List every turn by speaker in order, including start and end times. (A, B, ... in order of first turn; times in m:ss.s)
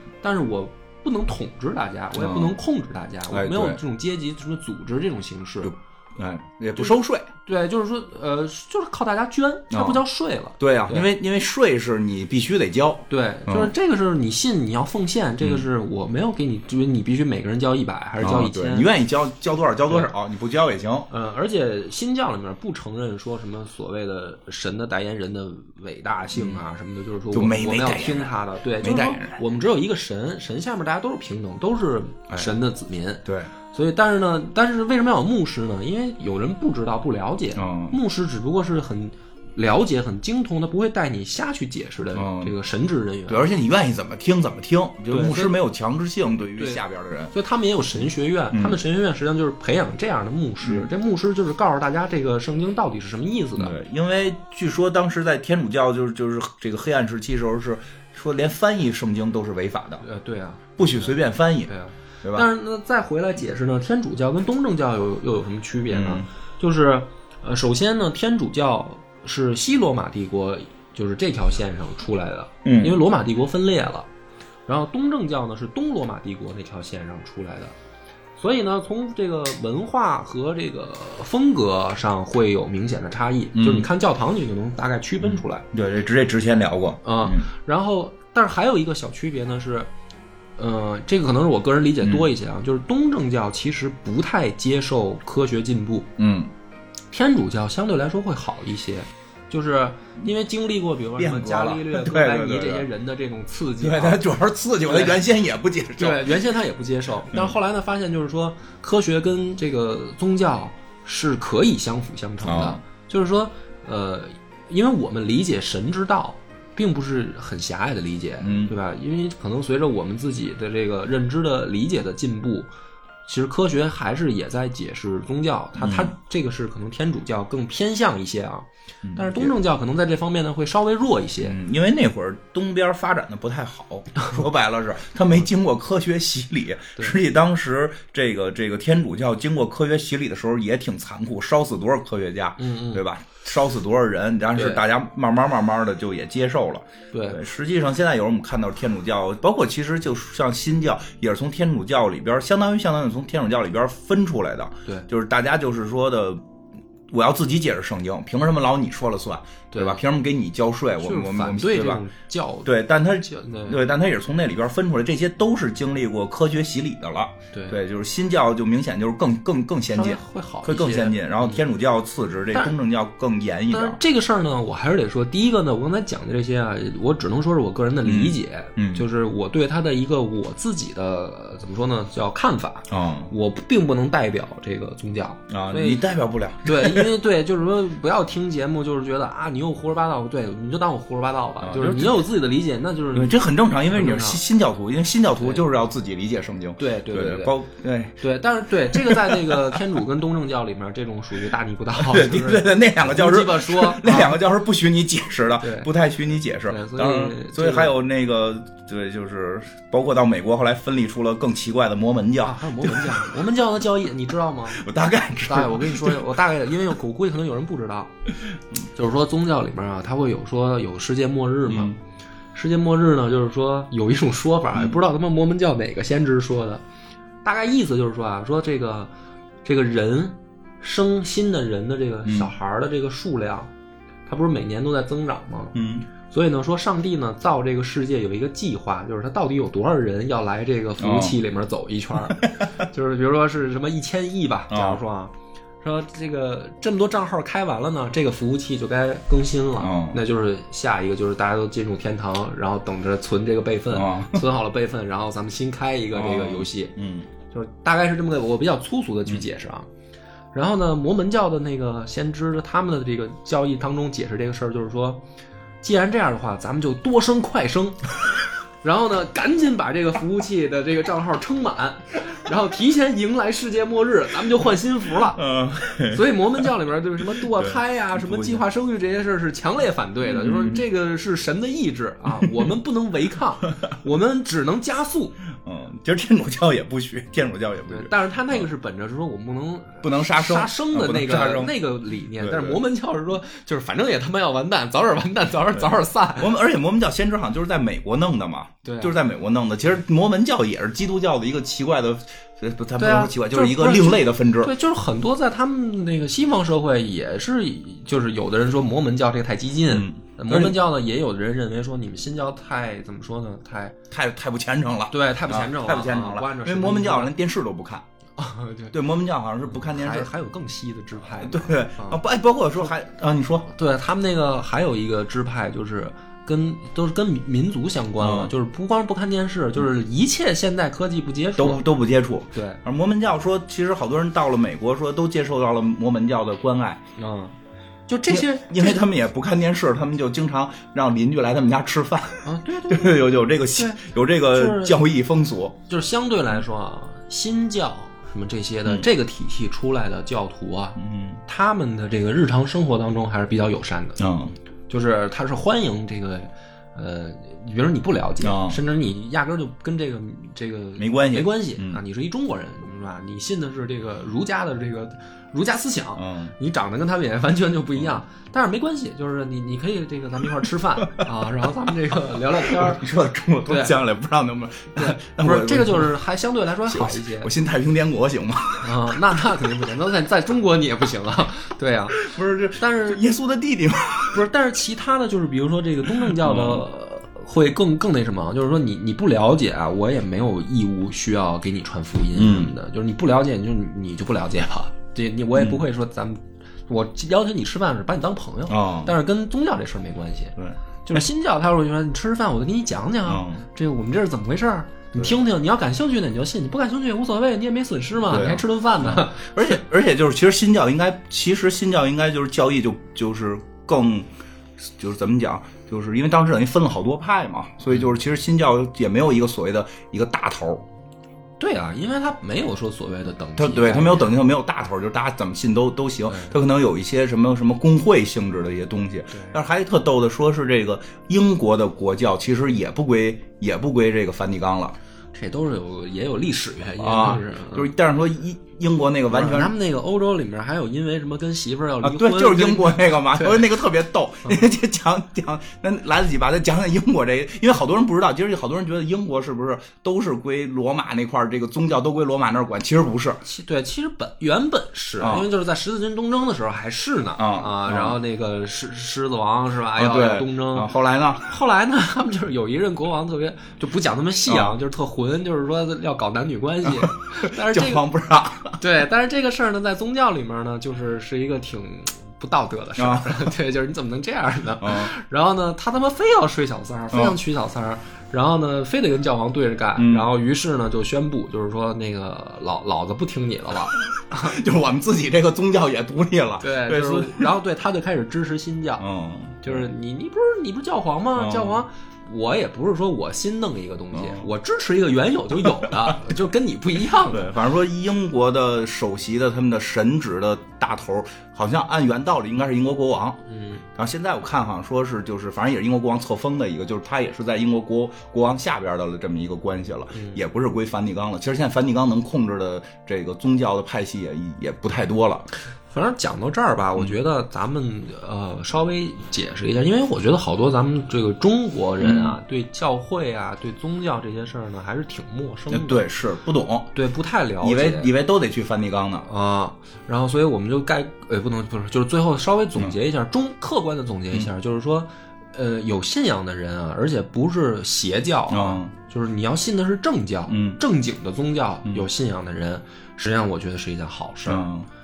0:00.2-0:05.7 A
0:02.2-0:02.6 B
0:03.3-0:03.8 B
0:05.6-0:07.3 B
0:06.8-0:11.1 A
0:09.7-0:10.0 B
0:10.6-0:13.7 B
0:13.1-0:18.9 A
0:15.4-0:15.6 B
0:18.2-0:21.1 B
0:21.1-0:43.4 A
0:26.3-0:26.6 B
0:27.3-0:29.4 B
0:33.2-0:33.5 B
0:37.6-0:38.0 B
0:42.1-0:42.5 B
0:43.3-0:47.3 B
0:45.1-0:45.5 A
0:47.3-0:53.7 A
0:48.5-0:48.8 B
0:50.6-0:50.9 B
0:53.6-1:00.0 B
1:00.0-1:01.1 A
1:00.8-1:01.7 B
1:01.7-1:14.1 A
1:05.9-1:06.3 B
1:12.6-1:13.0 B
1:14.7-1:17.7 A
1:18.4-1:25.7 A
1:23.6-1:23.9 B
1:25.2-1:27.5 B
1:27.0-1:29.9 A
1:30.6-1:36.1 A
1:32.0-1:32.3 B
1:36.2-1:36.5 B
1:37.1-1:44.2 A
1:41.2-1:42.9 B
1:43.8-1:46.3 B
1:44.9-1:45.2 A
1:46.0-2:02.7 A
1:52.4-1:52.8 B
1:58.4-1:58.7 B
2:03.3-2:11.6 A
2:05.8-2:06.1 B
2:09.0-2:09.6 B
2:11.4-2:36.4 B
2:22.6-2:23.0 A
2:24.6-2:24.8 A
2:27.1-2:27.4 A
2:37.1-2:42.0 B
2:39.7-2:40.0 A
2:41.0-2:43.8 A
2:42.6-2:54.0 B
2:47.5-2:47.8 A
2:49.9-2:51.6 A
2:53.7-3:06.0 A
2:58.0-2:59.0 B
3:02.9-3:03.3 B
3:05.5-3:07.1 B
3:06.6-3:14.4 A
3:11.6-3:12.3 B
3:13.1-3:18.2 B
3:15.4-3:15.6 A
3:16.8-3:17.5 A
3:18.2-3:24.4 A
3:18.9-3:19.8 B
3:22.0-3:33.4 B
3:25.6-3:25.9 A
3:26.6-3:28.0 A
3:32.4-3:34.8 A
3:34.7-3:36.2 B
3:35.4-3:38.1 A
3:38.9-3:41.9 A
3:41.7-3:42.0 B
3:42.6-3:46.8 A
3:47.4-3:49.1 A
3:49.6-3:53.7 A
3:52.3-3:52.5 B
3:54.3-4:16.9 A
3:55.7-3:56.1 B
4:01.0-4:01.4 B
4:04.7-4:05.0 B
4:09.8-4:10.2 B
4:13.9-4:14.4 B
4:16.1-4:17.3 B
4:17.5-4:19.9 A
4:20.5-4:25.2 A
4:25.8-4:28.1 A
4:28.8-4:35.4 A
4:35.2-4:36.2 B
4:36.1-4:45.4 A
4:37.4-4:38.6 B
4:40.2-4:40.8 B
4:42.4-4:42.7 B
4:45.6-4:48.6 B
4:47.9-4:56.5 A
4:50.0-4:51.8 B
4:52.4-4:52.8 B
4:56.4-5:04.7 B
4:58.8-4:59.2 A
5:03.0-5:14.0 A
5:09.9-5:10.8 B
5:14.1-5:18.0 B
5:15.1-5:17.3 A
5:18.4-5:18.9 A
5:18.9-5:20.3 B
5:19.7-5:22.2 A
5:21.4-5:23.7 B
5:23.7-5:31.8 A
5:28.2-5:28.5 B
5:31.6-5:37.0 B
5:32.5-5:32.8 A
5:37.2-5:37.5 A
5:38.1-5:39.0 A
5:38.3-5:45.8 B
5:42.4-5:44.0 A
5:44.5-5:45.0 A
5:45.9-5:54.2 A
5:51.0-5:51.4 B
5:54.2-5:54.6 B
5:54.9-6:13.1 A
5:58.4-5:58.8 B
6:01.0-6:02.0 B
6:06.2-6:06.5 B
6:12.6-6:16.1 B
6:13.7-6:13.9 A
6:15.0-6:17.5 A
6:16.9-6:19.8 B
6:18.8-6:22.2 A
6:22.2-6:24.4 B
6:22.7-6:23.2 A
6:24.3-6:49.8 A
6:26.2-6:26.8 B
6:32.4-6:32.7 B
6:35.6-6:35.8 B
6:38.7-6:39.1 B
6:40.6-6:41.2 B
6:43.3-6:43.6 B
6:48.3-7:00.8 B
7:01.6-7:04.4 A
7:03.6-7:15.0 B
7:06.3-7:06.5 A
7:09.3-7:09.6 A
7:15.3-7:17.9 A
7:17.0-7:19.7 B
7:19.3-7:23.7 A
7:22.0-7:33.4 B
7:33.4-7:40.9 A
7:35.2-7:35.5 B
7:37.4-7:38.2 B
7:40.0-7:41.4 B
7:41.4-7:48.0 A
7:44.5-7:44.7 B
7:46.8-7:48.8 B
7:48.8-8:04.6 A
7:53.0-7:53.5 B
7:54.8-7:55.1 B
7:57.1-7:57.4 B
8:00.0-8:00.3 B
8:04.3-8:07.5 B
8:06.6-8:09.0 A
8:09.0-8:09.8 B
8:09.6-8:17.5 A
8:11.4-8:11.8 B
8:14.1-8:14.4 B
8:15.8-8:16.2 B
8:17.3-8:23.4 B
8:23.5-8:23.8 A
8:23.9-8:35.4 B
8:30.1-8:30.4 A
8:35.9-8:46.0 A
8:42.0-8:42.4 B
8:45.7-8:46.9 B
8:46.9-8:48.1 A
8:47.6-8:49.3 B
8:49.2-9:04.7 A
8:58.5-8:58.9 B
9:00.5-9:00.8 B
9:04.4-9:04.9 B